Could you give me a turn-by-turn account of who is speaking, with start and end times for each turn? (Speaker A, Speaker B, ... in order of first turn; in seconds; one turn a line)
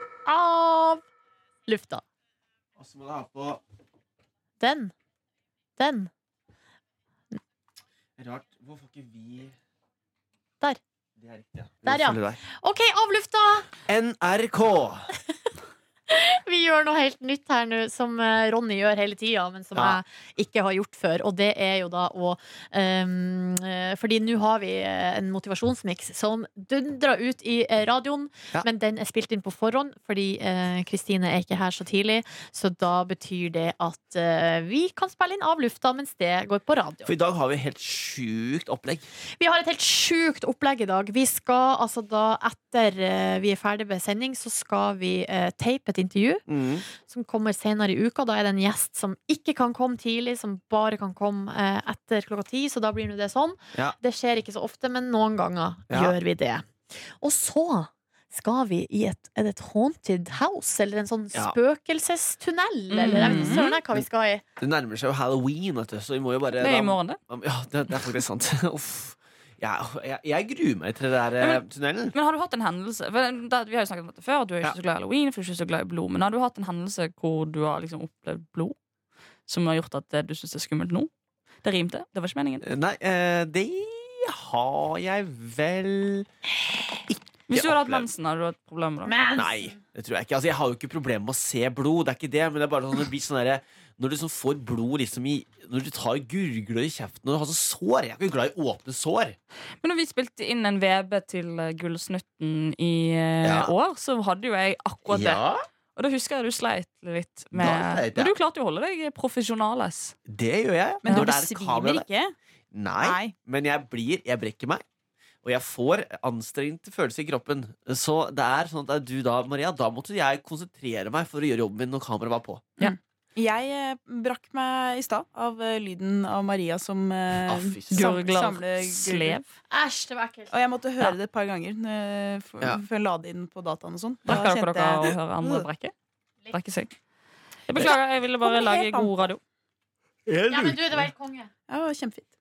Speaker A: 0.3-1.0
Speaker A: 1.7-2.0
Speaker B: 2.8-3.6
Speaker A: 4.6-4.9
Speaker A: 5.8-6.1
Speaker B: 8.2-9.6
Speaker B: 11.2-12.4
Speaker A: 11.8-13.7
Speaker B: 13.8-15.1
Speaker A: 16.1-37.1
Speaker B: 37.1-39.1
Speaker A: 39.4-46.5
Speaker B: 46.5-46.9
Speaker A: 47.0-56.6
Speaker B: 55.9-56.1
Speaker A: 57.2-64.4
Speaker C: 62.9-63.7
Speaker D: 63.0-63.6
Speaker B: 63.5-64.1
Speaker B: 64.6-72.2
Speaker C: 66.6-67.2
Speaker C: 71.4-78.8
Speaker C: 79.5-81.1
Speaker C: 81.6-82.7
Speaker B: 82.6-86.3
Speaker B: 87.1-88.1
Speaker C: 87.5-89.2
Speaker A: 89.1-89.4
Speaker B: 89.3-99.4
Speaker C: 99.8-105.4
Speaker B: 103.4-103.7
Speaker B: 105.1-105.6
Speaker C: 106.0-110.2
Speaker B: 107.5-108.3
Speaker B: 110.3-112.1
Speaker D: 111.0-112.3
Speaker C: 111.1-111.3
Speaker B: 112.7-114.8
Speaker D: 113.0-113.3
Speaker B: 115.4-122.8
Speaker D: 122.8-129.4
Speaker B: 127.5-128.1
Speaker C: 127.9-129.5
Speaker A: 129.7-130.5
Speaker D: 130.5-135.7
Speaker C: 134.3-135.9
Speaker C: 136.5-136.9
Speaker C: 137.7-139.4
Speaker D: 137.8-139.3
Speaker B: 140.3-141.1
Speaker A: 140.5-141.5
Speaker D: 141.7-142.3